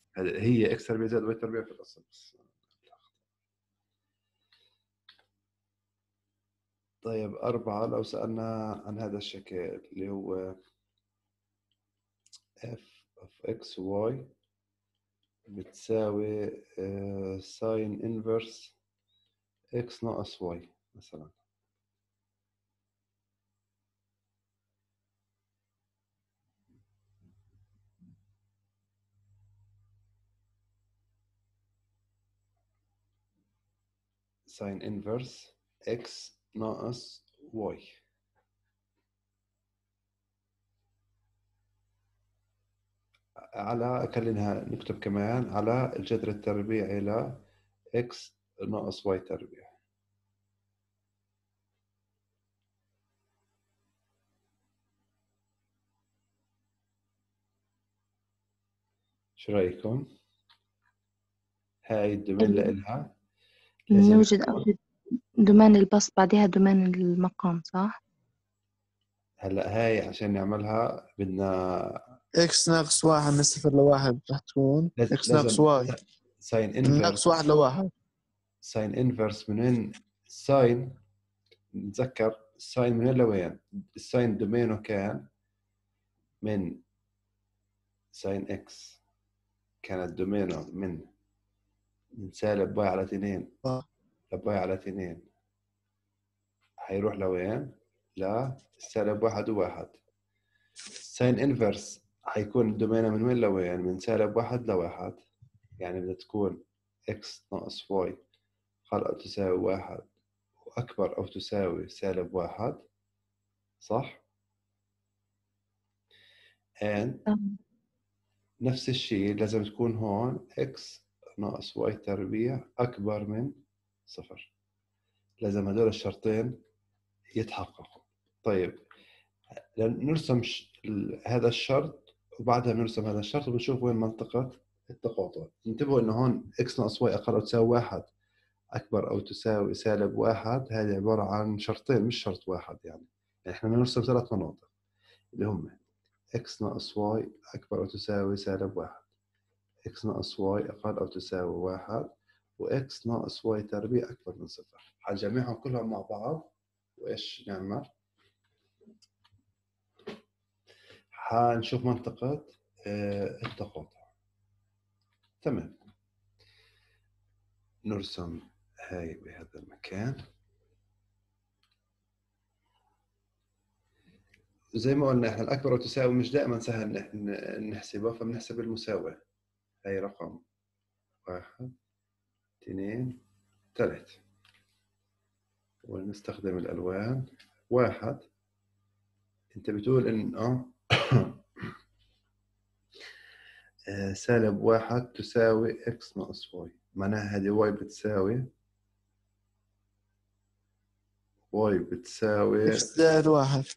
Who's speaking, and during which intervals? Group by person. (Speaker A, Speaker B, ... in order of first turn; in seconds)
Speaker A: 0.1-3.2, 7.0-10.6, 12.6-14.3, 15.5-18.7, 19.7-21.4, 34.5-38.0, 43.5-47.4, 48.0-49.7, 59.4-60.1, 61.9-63.1, 63.9-64.4, 69.4-72.1, 75.0-77.3, 78.6-81.0, 81.7-85.3, 86.4-86.8, 88.1-89.0, 89.8-91.1, 92.2-93.5, 94.3-95.3, 96.8-100.0, 101.0-105.2, 105.8-108.2, 108.9-110.1, 110.7-112.8, 113.8-114.2, 116.8-117.2, 118.6-124.5, 125.4-126.6, 127.3-128.8, 129.8-138.1, 138.7-144.7, 145.3-145.8, 146.3-149.1, 149.8-157.9, 161.1-164.1, 165.4-165.8, 167.8-170.2, 174.8-179.2, 179.8-180.4, 181.2-181.7, 182.6-183.2, 183.7-184.2, 185.8-188.2, 189.5-191.6, 193.9-198.5, 201.5-202.9
Speaker B: 62.4-62.7, 63.9-64.8, 65.4-68.0, 117.3-117.6
Speaker C: 72.4-75.9, 76.8-77.9, 202.7-203.7